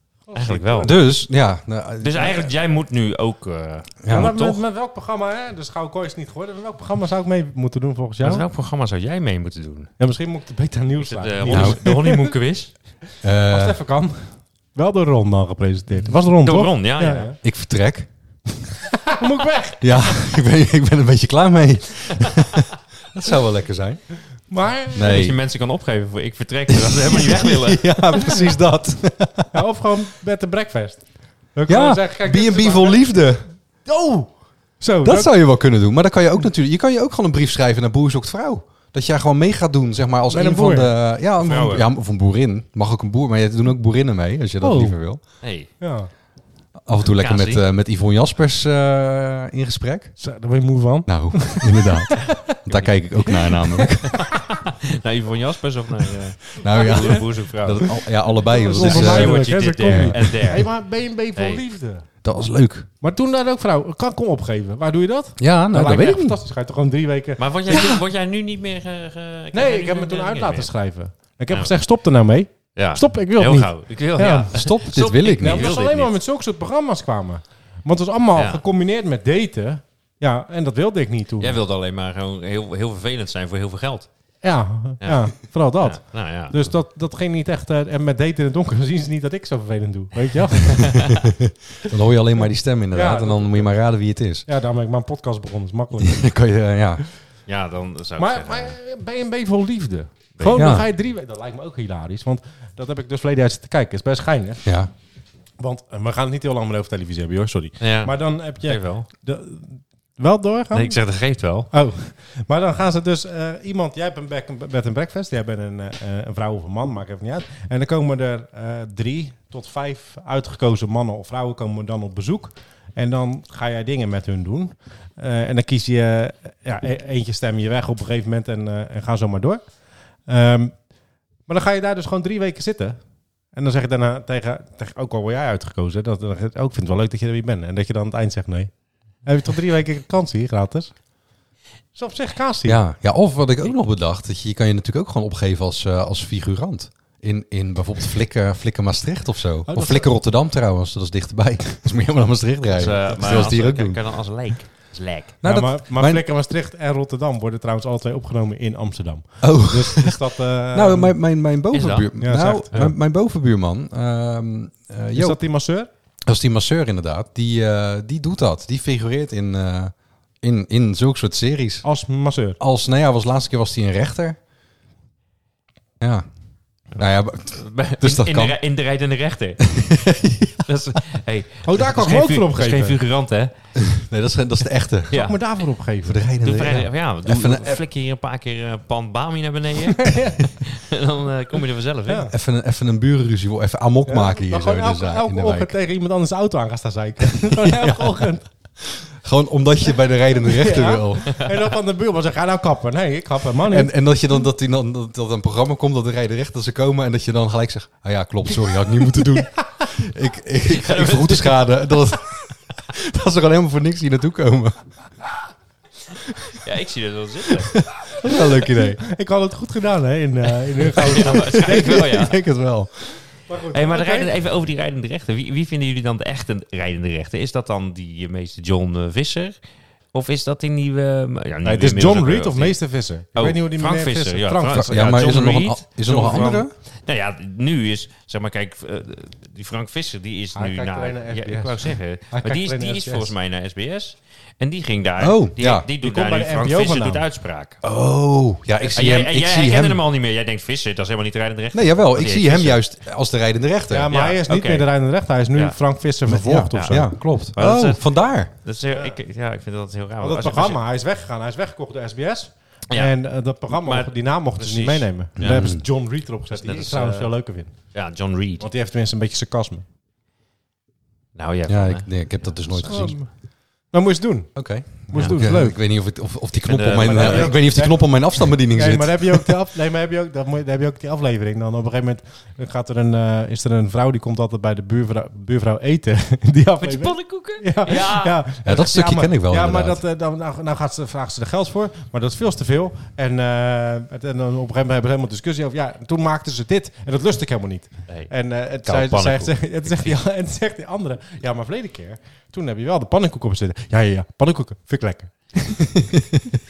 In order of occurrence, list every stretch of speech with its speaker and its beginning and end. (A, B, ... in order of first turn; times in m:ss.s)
0:00.3-0:01.0 A
0:00.3-0:00.9 B
0:00.8-0:02.5 C
0:02.0-0:04.6 B
0:04.0-0:04.4 C
0:04.1-0:08.5 A
0:08.2-0:09.9 B
0:10.0-0:12.3 A
0:11.0-0:12.9 B
0:11.5-0:11.8 C
0:13.2-0:13.8 C
0:13.4-0:17.4 A
0:16.4-0:17.3 B
0:17.4-0:18.1 C
0:19.1-0:19.9 A
0:19.8-0:24.1 C
0:24.5-0:25.3 A
0:24.9-0:25.4 C
0:25.0-0:28.1 B
0:26.7-0:29.6 C
0:28.2-0:28.5 A
0:29.5-0:33.3 A
0:31.7-0:33.5 C
0:33.8-0:35.4 A
0:35.0-0:45.2 C
0:40.3-0:40.9 A
0:41.4-0:41.9 B
0:44.6-0:45.0 A
0:45.4-0:45.7 B
0:45.8-0:46.1 A
0:46.9-0:50.2 C
0:47.2-0:47.6 B
0:50.2-0:52.4 A
0:51.1-0:54.3 C
0:53.5-0:54.3 A
0:54.4-0:58.0 B
0:56.6-1:00.4 C
0:56.7-0:57.2 A
0:58.5-1:02.1 A
0:58.6-1:00.7 B
1:01.4-1:01.6 B
1:02.2-1:02.9 C
1:03.0-1:08.0 A
1:05.4-1:06.4 C
1:07.4-1:10.7 B
1:09.5-1:14.5 A
1:12.8-1:16.1 B
1:14.5-1:15.7 C
1:15.4-1:21.6 A
1:18.4-1:18.6 B
1:21.4-1:24.1 B
1:24.4-1:31.1 A
1:25.0-1:26.7 B
1:31.4-1:34.4 C
1:32.9-1:33.8 A
1:34.5-1:36.2 A
1:36.0-1:37.0 C
1:37.5-1:38.8 B
1:38.2-1:44.7 A
1:40.4-1:40.7 B
1:40.5-1:40.9 C
1:44.6-1:44.9 C
1:45.6-1:51.0 A
1:47.8-1:49.1 B
1:50.7-1:51.7 B
1:51.7-2:10.9 A
2:11.5-2:21.0 A
2:22.0-2:22.8 A
2:22.6-2:34.0 C
2:29.7-2:30.1 A
2:32.7-2:35.3 B
2:33.0-2:33.6 A
2:35.4-2:36.2 C
2:35.4-2:41.2 A
2:39.4-2:40.2 C
2:40.7-2:45.4 C
2:41.7-2:42.2 B
2:42.2-2:42.7 A
2:45.2-2:45.9 A
2:46.3-2:51.9 C
2:51.8-2:52.6 A
2:52.6-2:54.4 C
2:56.0-2:56.3 C
2:56.9-2:58.6 C
2:57.0-2:59.7 B
2:59.7-3:00.6 C
3:00.6-3:03.5 B
3:01.6-3:03.0 A
3:03.8-3:05.2 C
3:05.1-3:05.4 B
3:05.1-3:06.2 A
3:06.0-3:07.8 C
3:06.4-3:12.3 B
3:10.0-3:10.5 A
3:12.1-3:12.3 A
3:12.3-3:15.7 C
3:14.1-3:18.5 A
3:17.5-3:18.3 C
3:19.0-3:21.4 C
3:20.4-3:24.0 A
3:23.7-3:34.8 C
3:30.7-3:31.6 B
3:36.5-3:37.9 B
3:37.8-3:39.0 C
3:38.8-3:42.3 A
3:40.9-3:42.4 B
3:41.3-3:42.9 C
3:43.5-3:44.3 A
3:43.7-3:49.6 B
3:50.1-3:52.8 B
3:51.6-3:55.2 A
3:53.4-4:07.8 B
3:54.7-3:56.7 C
3:56.0-3:56.6 A
4:00.6-4:03.3 A
4:05.2-4:05.9 C
4:06.0-4:07.2 A
4:07.8-4:10.0 C
4:08.9-4:12.8 B
4:11.7-4:14.1 C
4:13.9-4:17.1 A
4:14.1-4:15.8 B
4:16.3-4:18.5 C
4:16.7-4:20.8 B
4:18.9-4:19.2 A
4:20.2-4:28.0 A
4:22.9-4:25.8 B
4:25.4-4:25.8 C
4:26.5-4:27.3 B
4:27.9-4:28.7 B
4:28.6-4:29.8 A
4:31.4-4:33.1 B
4:31.7-4:33.2 C
4:32.8-4:35.8 A
4:34.6-4:39.5 C
4:36.6-4:37.6 B
4:37.0-5:05.8 A
4:46.8-4:48.4 B
4:48.6-4:50.0 C
4:58.1-5:00.2 B
5:06.1-5:06.4 C